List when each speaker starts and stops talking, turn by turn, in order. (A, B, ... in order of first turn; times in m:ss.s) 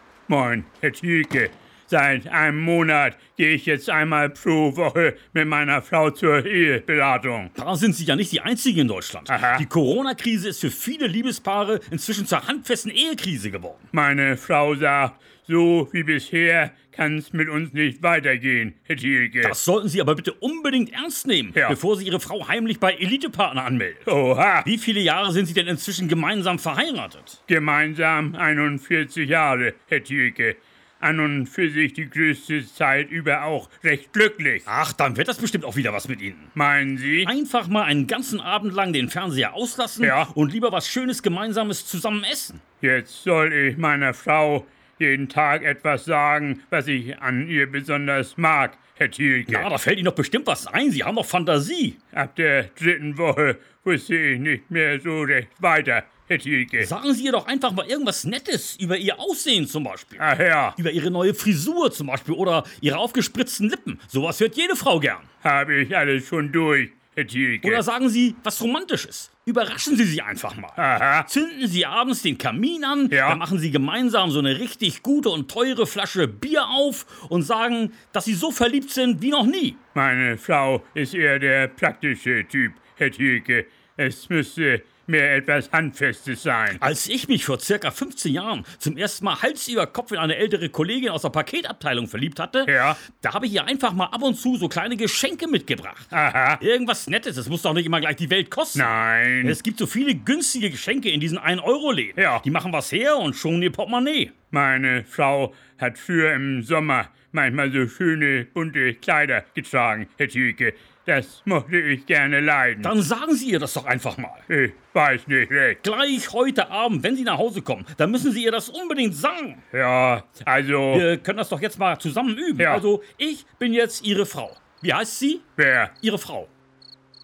0:00.3-0:07.5 A
0:07.5-0:13.8 B
0:09.3-0:09.7 A
0:13.9-0:19.6 A
0:19.4-0:24.1 B
0:24.0-0:24.7 A
0:24.6-0:27.4 B
0:27.5-0:34.6 A
0:34.6-0:36.5 B
0:36.5-0:37.3 A
0:37.2-0:42.6 B
0:40.0-0:40.3 A
0:42.8-0:49.7 A
0:49.5-0:52.0 B
0:52.1-0:56.9 A
0:56.8-1:05.3 B
1:00.2-1:00.8 A
1:05.4-1:07.8 A
1:07.6-1:19.8 B
1:10.8-1:11.3 A
1:13.1-1:13.4 A
1:19.9-1:26.8 A
1:26.8-1:38.9 B
1:32.6-1:33.0 A
1:36.1-1:36.6 A
1:38.7-1:39.6 A
1:39.4-1:44.3 B
1:42.2-1:42.4 A
1:44.5-1:52.9 A
1:52.8-1:54.4 B
1:54.5-1:55.8 A
1:55.8-1:59.6 B
1:59.7-2:01.1 A
2:00.9-2:05.4 B
2:02.6-2:02.8 A
2:05.6-2:05.9 A
2:06.0-2:06.5 B